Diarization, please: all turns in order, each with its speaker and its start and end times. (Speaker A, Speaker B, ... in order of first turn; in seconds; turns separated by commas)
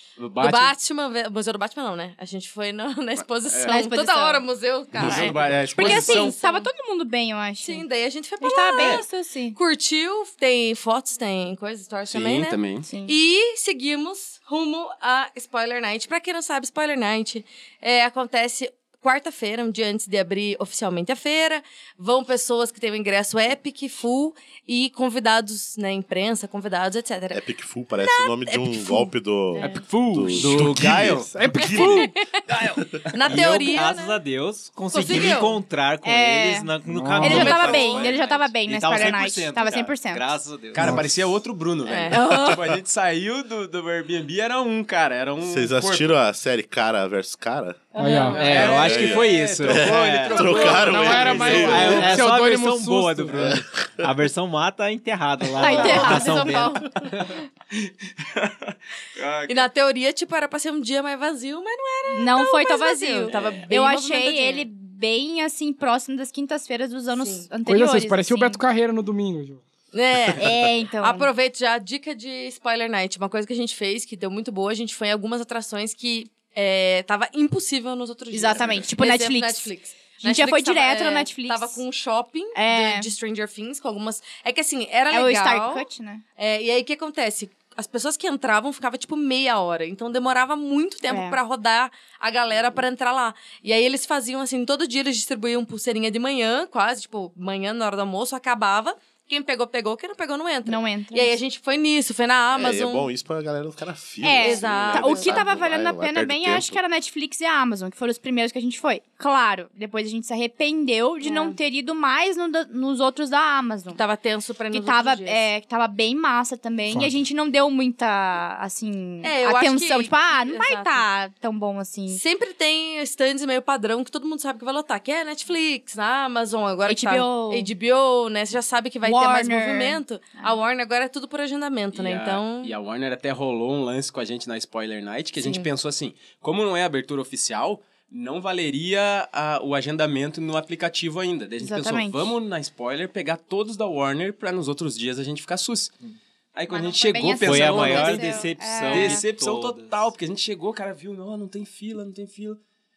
Speaker A: 0.2-0.7, Speaker B: 0.4-6.7, Speaker A: 3.2-3.8, Speaker C: 3.7-4.4, Speaker D: 5.0-5.8, Speaker A: 5.0-6.3, Speaker C: 5.8-7.8, Speaker B: 7.6-27.4, Speaker C: 8.4-9.6, Speaker A: 12.1-12.9, Speaker C: 12.8-13.1, Speaker D: 27.3-32.1, Speaker B: 28.0-29.8, Speaker A: 29.7-31.3, Speaker E: 30.5-31.0, Speaker F: 31.3-32.2, Speaker B: 31.6-32.2, Speaker A: 32.5-32.9, Speaker B: 33.1-34.2, Speaker E: 33.2-41.0, Speaker B: 34.9-35.6, Speaker C: 36.0-36.7, Speaker F: 36.9-37.5, Speaker C: 37.2-40.3, Speaker A: 37.3-38.1, Speaker B: 37.4-37.8, Speaker A: 40.7-46.1, Speaker F: 40.8-41.1, Speaker B: 41.9-42.8, Speaker D: 45.4-47.9, Speaker C: 47.9-48.8, Speaker F: 48.0-48.5, Speaker E: 48.3-57.4, Speaker A: 48.4-52.2, Speaker B: 48.4-48.6, Speaker D: 48.6-52.1, Speaker F: 50.7-53.5, Speaker D: 53.3-53.6, Speaker C: 55.6-56.7, Speaker B: 55.6-57.1, Speaker A: 58.2-59.7, Speaker B: 59.5-64.7, Speaker C: 62.1-68.6, Speaker A: 63.3-63.7, Speaker B: 67.2-67.5, Speaker F: 67.7-69.6, Speaker B: 69.9-85.9, Speaker C: 70.4-71.3, Speaker C: 78.3-81.8, Speaker A: 78.5-78.9, Speaker C: 82.5-83.1, Speaker C: 85.1-86.2, Speaker B: 86.4-103.1, Speaker C: 91.1-91.4, Speaker C: 100.7-101.4, Speaker D: 102.5-106.8, Speaker C: 104.2-114.0, Speaker B: 104.3-105.4, Speaker B: 111.2-111.6, Speaker B: 113.9-115.5, Speaker C: 114.7-122.2, Speaker B: 119.2-121.0, Speaker B: 122.1-132.7, Speaker C: 126.9-127.7, Speaker C: 129.0-130.6, Speaker A: 131.9-145.9, Speaker B: 135.4-135.7, Speaker C: 141.6-142.4, Speaker A: 146.6-152.6, Speaker C: 146.7-149.2, Speaker E: 147.4-150.1